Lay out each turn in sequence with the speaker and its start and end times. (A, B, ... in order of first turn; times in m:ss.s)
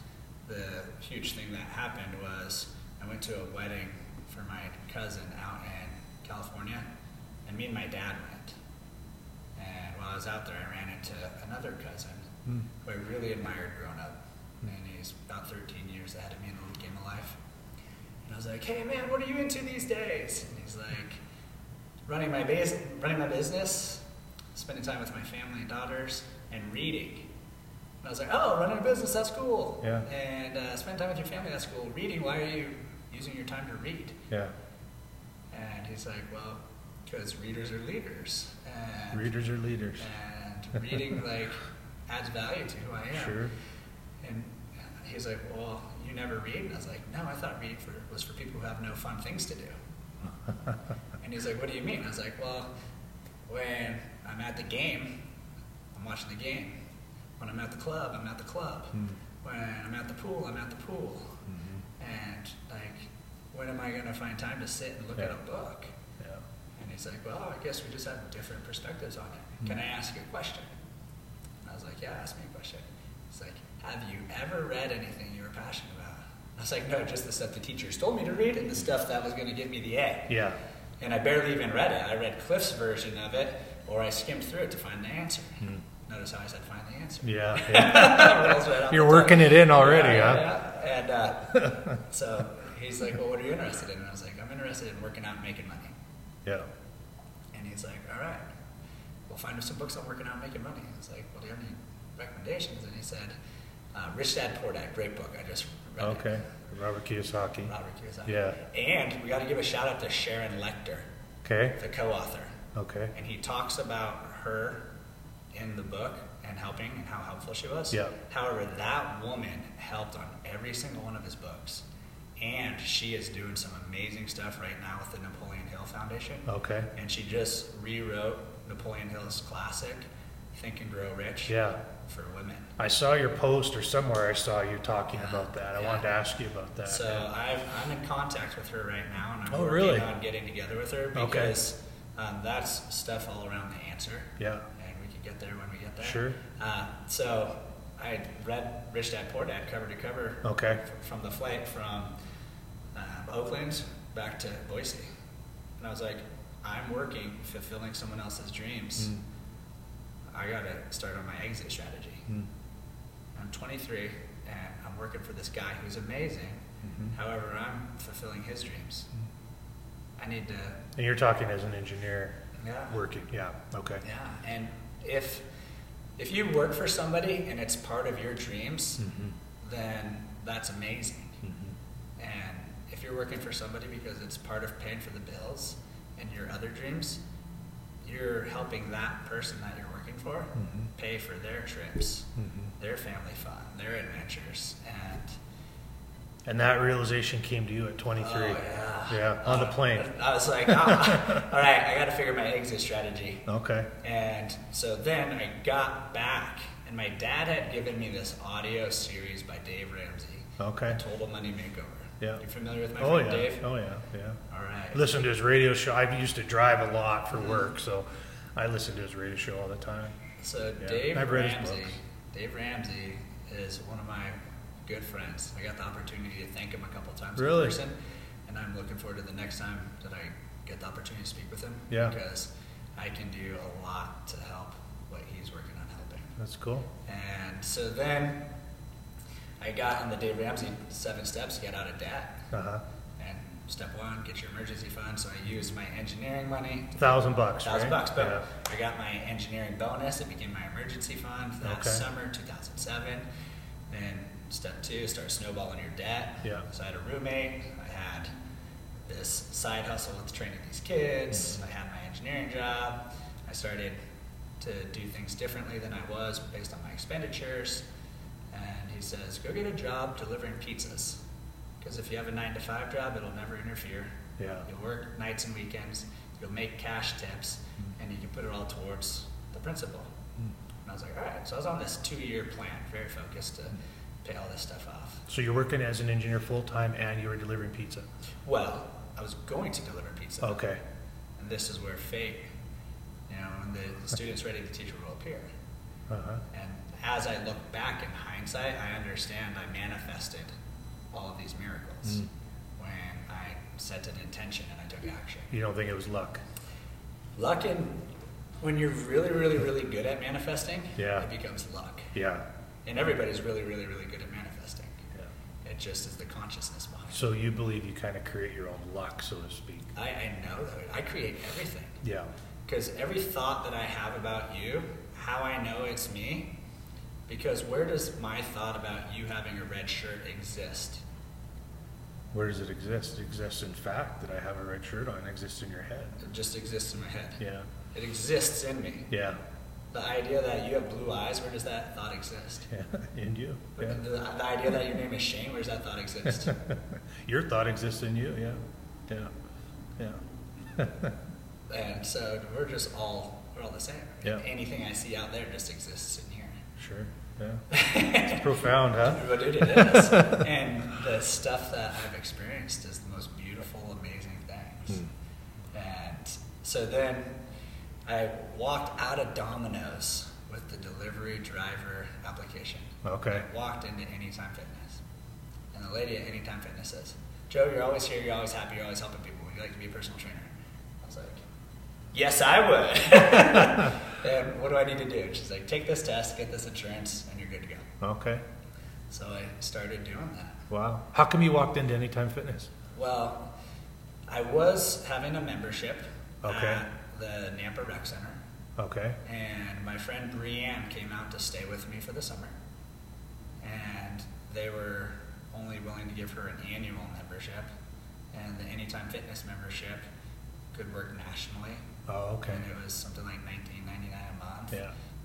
0:00.5-0:06.8 A
0:07.4-0:08.5 A
0:09.6-0:17.4 A
0:18.2-0:21.2 A
0:22.1-0:24.0 A
0:24.5-0:27.3 A
0:28.0-0:34.2 A
0:35.5-0:39.3 A
0:39.1-0:40.1 B
0:40.0-0:43.4 A
0:43.1-0:43.5 B
0:44.2-0:49.8 A
0:50.5-0:50.8 B
0:51.2-0:52.7 A
0:53.5-0:55.2 A
0:55.9-0:56.7 A
0:57.4-1:01.4 A
1:01.5-1:01.8 B
1:02.0-1:05.9 A
1:06.8-1:10.7 A
1:11.6-1:20.4 A
1:20.3-1:20.6 B
1:21.0-1:36.0 A
1:27.2-1:30.5 B
1:37.5-1:38.4 A
1:39.3-1:43.4 A
1:43.9-1:46.3 A
1:46.0-1:47.7 B
1:47.7-1:51.1 A
1:48.2-1:48.6 B
1:51.4-1:51.8 B
1:51.8-1:52.6 A
1:52.7-1:53.1 B
1:53.1-1:54.8 A
1:55.5-2:01.8 A
2:02.4-2:12.7 A
2:06.5-2:06.9 B
2:11.5-2:11.8 B
2:12.8-2:17.2 B
2:15.2-2:16.1 A
2:16.9-2:32.1 A
2:19.5-2:20.1 B
2:21.1-2:21.6 B
2:24.4-2:24.6 B
2:26.0-2:26.4 B
2:30.4-2:30.8 B
2:32.9-2:35.1 A
2:35.8-2:39.1 A
2:40.3-2:42.3 A
2:43.4-2:49.1 A
2:46.8-2:47.1 B
2:50.2-2:50.8 A
2:51.0-2:52.4 B
2:52.6-2:53.0 A
2:52.9-2:54.0 B
2:54.0-2:55.4 A
2:56.2-2:59.1 A
2:59.0-2:59.4 B
2:59.6-3:01.4 A
3:01.4-3:01.7 B
3:02.2-3:07.2 A
3:08.0-3:15.4 A
3:10.6-3:10.9 B
3:12.4-3:12.7 B
3:16.4-3:20.1 B
3:18.2-3:23.4 A
3:20.6-3:21.4 B
3:23.5-3:23.9 B
3:24.0-3:33.6 A
3:30.6-3:31.0 B
3:33.0-3:34.4 B
3:34.5-3:35.0 A
3:34.9-3:40.2 B
3:40.4-3:47.9 A
3:40.8-3:41.9 B
3:47.4-3:47.8 B
3:48.5-3:56.3 A
3:56.4-3:56.9 B
3:57.1-3:58.4 A
3:59.6-4:02.5 A
4:02.5-4:02.8 B
4:03.2-4:13.2 A
4:07.0-4:08.4 B
4:11.6-4:12.0 B
4:13.9-4:18.3 A
4:19.1-4:24.0 A
4:24.6-4:27.8 A
4:28.5-4:31.2 A
4:31.8-4:34.1 A
4:34.4-4:34.6 B
4:34.6-4:40.1 A
4:40.8-4:45.2 A
4:45.3-4:48.0 B
4:48.4-4:50.6 A
4:50.4-4:50.8 B
4:51.4-4:52.4 A
4:53.3-4:55.5 A
4:56.1-4:56.4 B
4:56.5-5:00.5 A
5:01.1-5:02.2 A
5:02.8-5:05.5 A
5:05.5-5:06.4 B
5:07.4-5:08.0 A
5:08.6-5:12.1 A
5:11.0-5:11.3 B
5:12.1-5:12.4 B
5:12.9-5:15.0 A
5:15.6-5:17.2 A
5:17.1-5:19.9 B
5:19.9-5:22.0 A
5:22.0-5:22.3 B
5:22.7-5:26.5 A
5:27.3-5:31.0 A
5:32.3-5:36.2 B
5:36.2-5:37.4 A
5:37.4-5:37.7 B
5:37.9-5:39.1 A
5:39.1-5:39.4 B
5:39.9-5:42.7 A
5:42.7-5:44.0 B
5:43.8-5:46.6 A
5:46.4-5:49.3 B
5:50.7-5:51.1 B
5:51.7-5:56.6 A
5:56.8-5:57.6 B
5:57.7-6:05.1 A
5:58.3-6:00.5 B
6:05.7-6:07.4 A
6:08.1-6:15.0 A
6:13.0-6:13.4 B
6:15.7-6:20.5 A
6:21.0-6:21.4 A
6:22.1-6:27.9 A
6:23.6-6:23.9 B
6:28.0-6:28.4 B
6:29.1-6:30.7 A
6:30.7-6:32.7 B
6:32.9-6:33.5 A
6:34.3-6:38.4 A
6:36.4-6:36.8 B
6:38.8-6:39.2 B
6:39.2-6:42.5 A
6:43.6-6:47.7 A
6:48.3-6:50.0 A
6:50.7-6:51.9 A
6:52.1-6:52.6 B
6:52.5-6:54.8 A